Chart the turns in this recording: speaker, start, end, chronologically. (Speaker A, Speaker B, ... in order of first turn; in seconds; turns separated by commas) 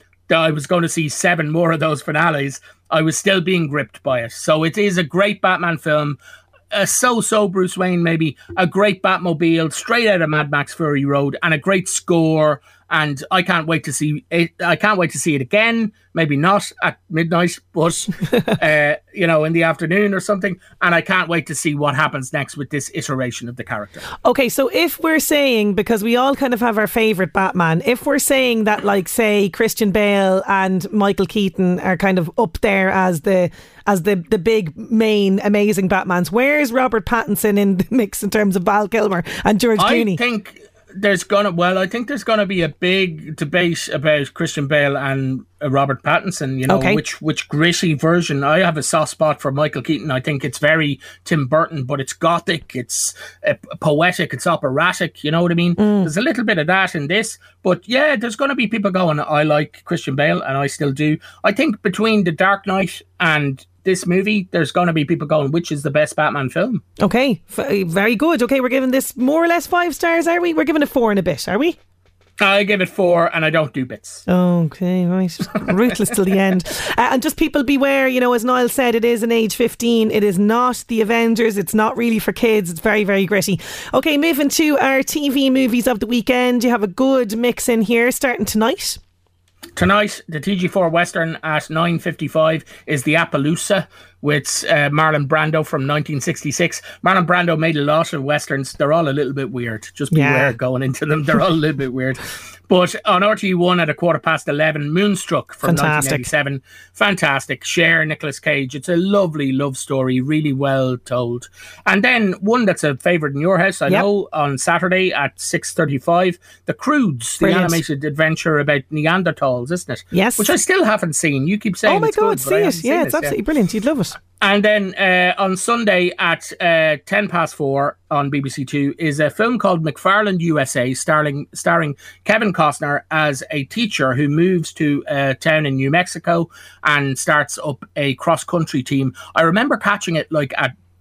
Speaker A: 0.3-6.2, Speaker A: 6.7-24.0, Speaker B: 24.2-40.2, Speaker A: 39.8-66.8, Speaker B: 46.7-47.0, Speaker B: 55.8-56.1, Speaker B: 67.0-71.8, Speaker A: 72.4-74.2, Speaker B: 74.3-89.0, Speaker A: 89.7-123.4, Speaker B: 100.1-100.5, Speaker B: 105.6-106.3, Speaker B: 117.4-117.8, Speaker B: 120.1-120.5, Speaker B: 121.8-124.2, Speaker A: 124.4-140.7